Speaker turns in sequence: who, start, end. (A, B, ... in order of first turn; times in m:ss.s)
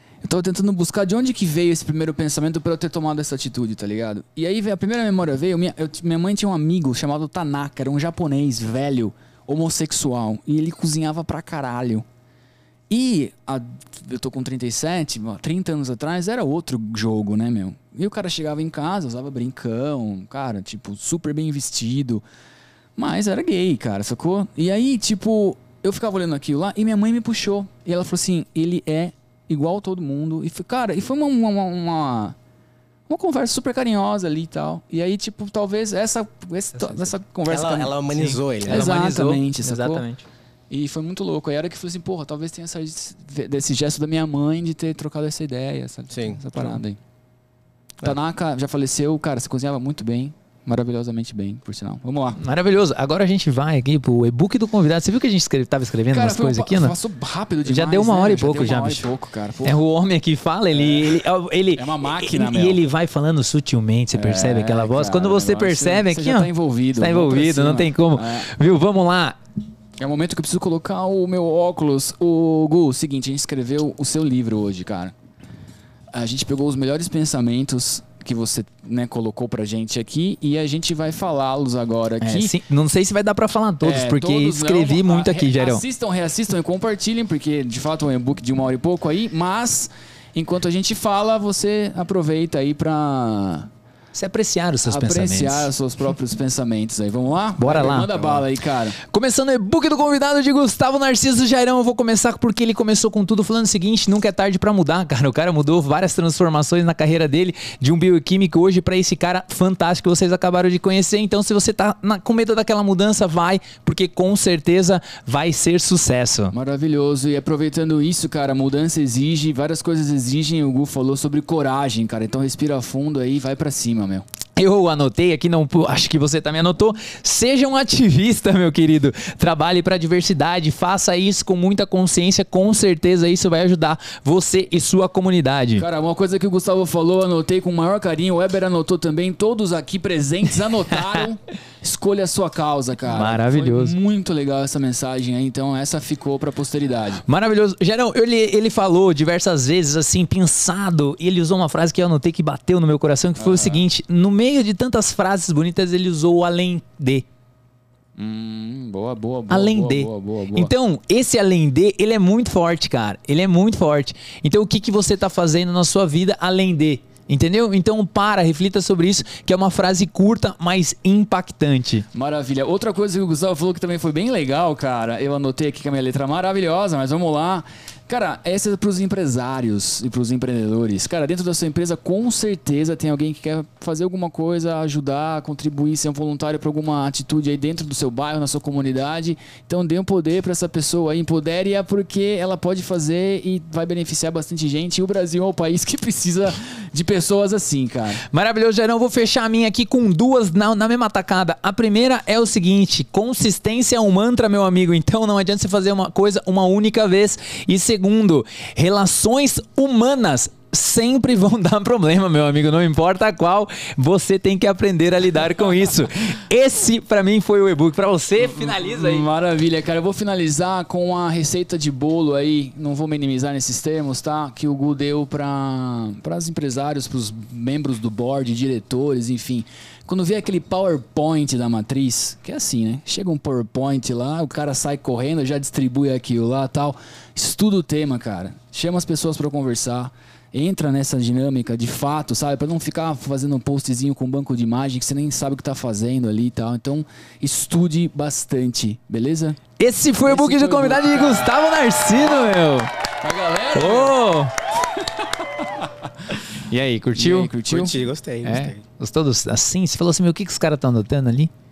0:00.2-0:12.0 A
0:12.9-0:22.2 A
0:23.0-0:32.4 A
0:33.1-0:38.0 A
0:36.7-0:37.1 B
0:37.5-0:38.8 C
0:38.1-0:40.2 B
0:38.6-0:40.0 A
0:40.7-0:47.0 A
0:46.1-0:46.6 C
0:48.0-0:52.4 A
0:52.4-0:56.9 B
0:56.1-0:59.8 A
0:57.6-0:59.0 B
0:59.6-1:09.4 B
1:00.7-1:01.2 A
1:01.8-1:02.8 A
1:04.1-1:08.5 A
1:10.0-1:15.1 A
1:16.1-1:22.5 A
1:22.2-1:25.8 B
1:23.8-1:33.7 A
1:34.1-1:35.7 B
1:34.8-1:39.0 A
1:37.6-1:38.2 B
1:39.0-1:56.5 B
1:56.5-2:04.2 A
2:04.6-2:15.8 B
2:15.8-2:27.2 A
2:23.1-2:24.0 B
2:27.3-2:37.2 B
2:33.4-2:33.8 A
2:38.2-2:40.7 A
2:39.5-2:52.0 B
2:52.1-3:18.2 A
3:18.3-3:39.3 B
3:38.4-4:09.6 A
4:09.8-4:12.9 B
4:10.2-4:11.5 A
4:13.2-4:14.2 A
4:13.7-4:14.5 B
4:14.9-4:15.8 A
4:16.6-4:17.5 B
4:17.1-4:18.0 A
4:17.7-4:18.8 C
4:18.4-4:21.5 B